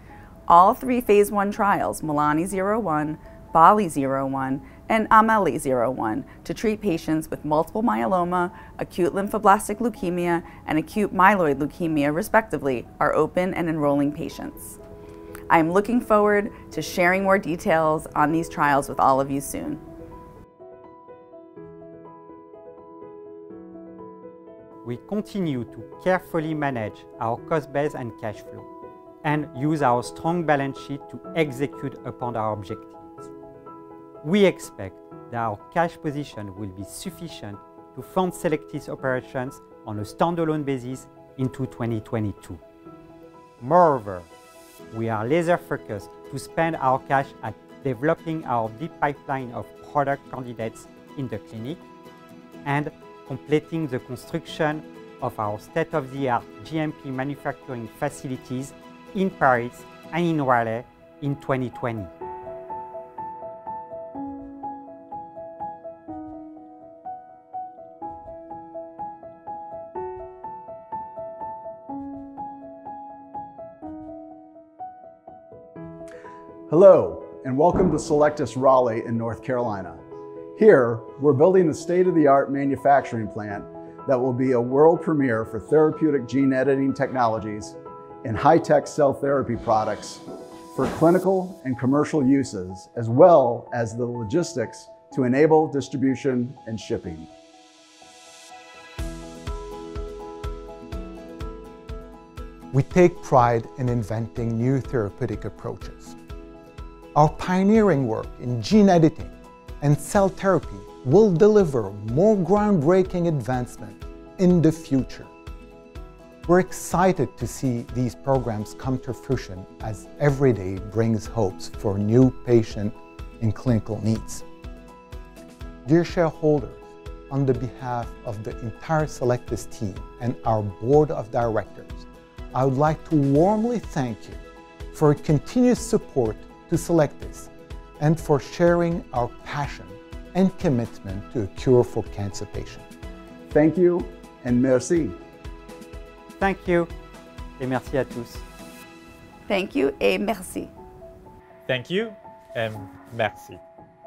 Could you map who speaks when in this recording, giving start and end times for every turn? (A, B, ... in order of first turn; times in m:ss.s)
0:00.5-0:14.8 A
0:15.5-0:19.8 A
0:24.8-0:28.7 B
0:29.2-0:33.3 B
0:34.2-0:42.6 B
0:43.6-0:44.3 B
0:44.9-0:51.8 B
0:52.6-1:02.1 B
1:16.7-1:20.0 C
1:20.6-1:37.3 C
1:42.7-1:46.2 D
1:47.1-1:55.3 D
1:56.4-2:04.4 D
2:05.9-2:14.4 D
2:14.9-2:22.8 D
2:23.5-2:25.2 C
2:26.4-2:26.9 B
2:27.6-2:28.4 B
2:29.5-2:30.7 A
2:31.7-2:33.6 E